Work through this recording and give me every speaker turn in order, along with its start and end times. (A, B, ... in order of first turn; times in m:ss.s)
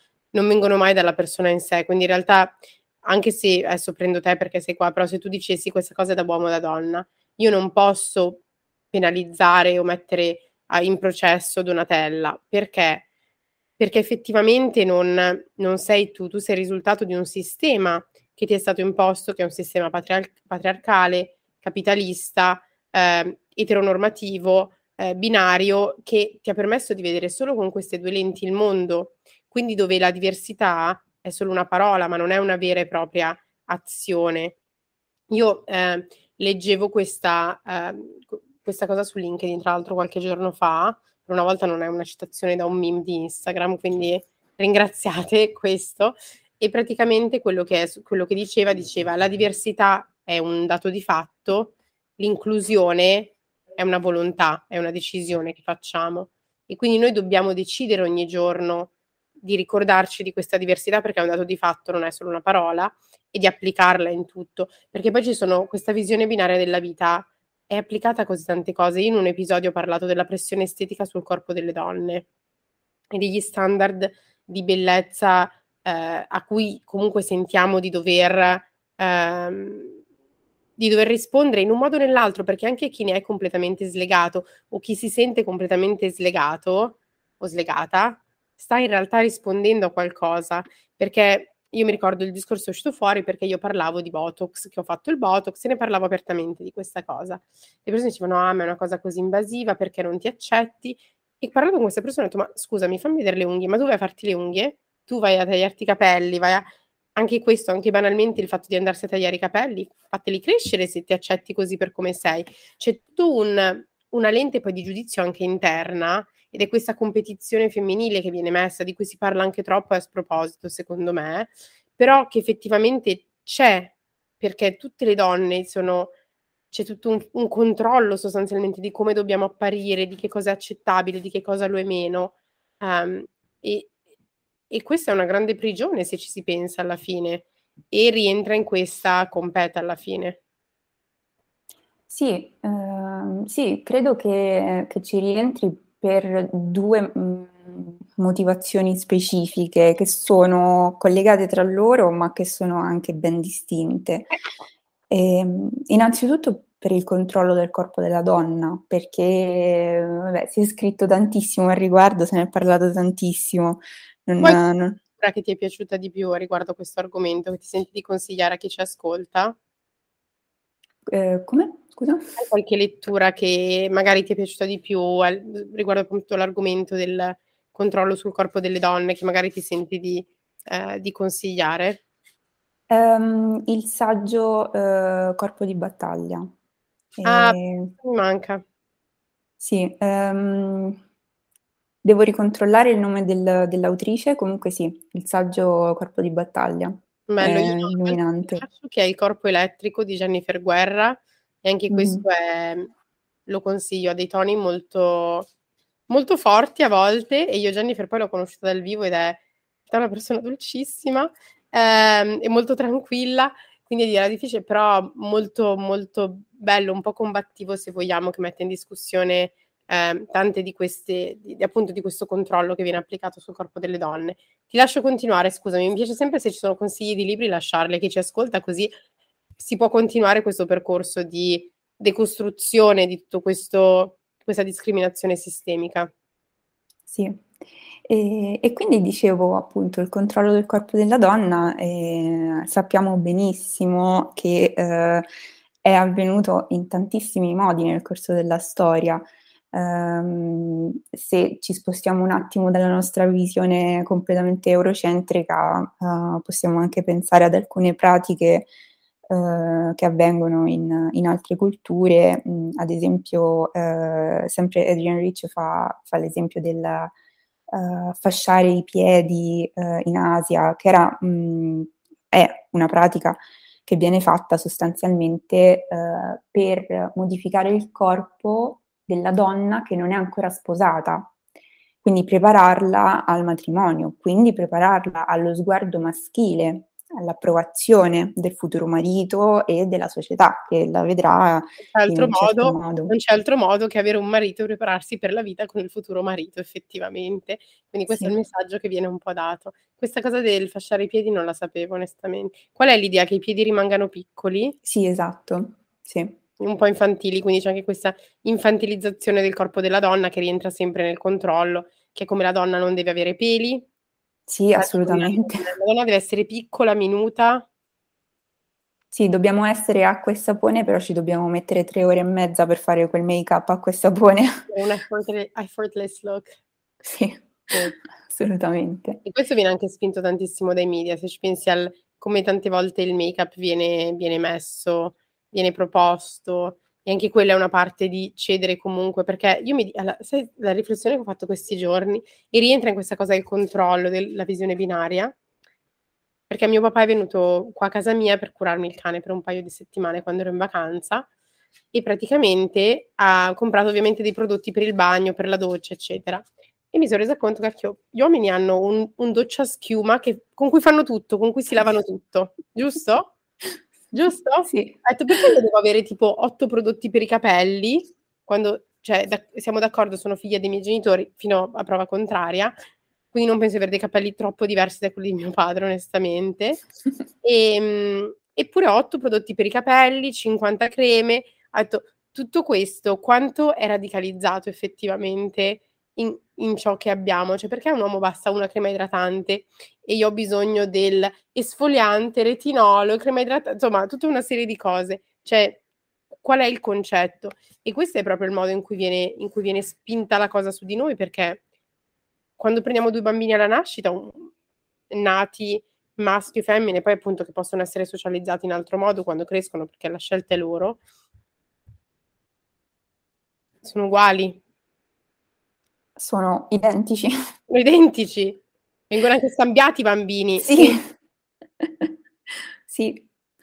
0:00.3-0:13.0 A
0:13.8-0:34.6 A
0:35.3-1:12.3 A
1:13.1-1:20.0 A
1:20.8-2:06.1 A
2:06.7-2:13.9 A
2:14.7-2:20.4 A
2:22.1-2:34.3 B
2:35.1-2:45.0 B
2:45.2-2:49.6 A
2:51.1-2:52.2 B
2:52.4-3:02.0 A
3:02.9-3:06.5 B
3:07.2-3:07.9 B
3:07.2-3:08.6 A
3:09.6-3:11.0 B
3:12.0-3:18.6 B
3:17.3-3:22.9 A
3:21.9-3:22.2 B
3:23.5-3:25.5 A
3:26.1-3:48.9 A
3:49.6-3:56.1 A
3:57.1-3:57.5 B
3:58.1-4:05.3 B
4:05.8-4:18.7 B
4:19.3-4:27.1 B
4:27.7-4:41.3 B
4:42.0-4:53.1 B
4:51.9-5:04.8 A
5:04.8-5:06.4 B
5:06.6-5:13.9 A
5:14.5-5:15.7 B
5:14.8-5:17.7 A
5:19.1-5:24.7 B
5:24.7-5:26.5 A
5:27.0-5:29.2 B
5:29.2-5:45.3 A
5:46.5-5:51.3 A
5:51.9-6:03.3 A
6:04.1-6:12.7 A
6:04.7-6:05.4 B
6:13.3-6:16.8 A
6:17.4-6:35.8 A
6:36.4-6:41.6 A
6:42.6-6:44.5 A
6:45.1-6:51.0 A
6:53.8-6:54.6 A
6:56.2-6:57.4 B
6:57.7-7:01.0 A
7:00.6-7:01.1 B
7:01.8-7:02.1 B
7:02.9-7:03.3 B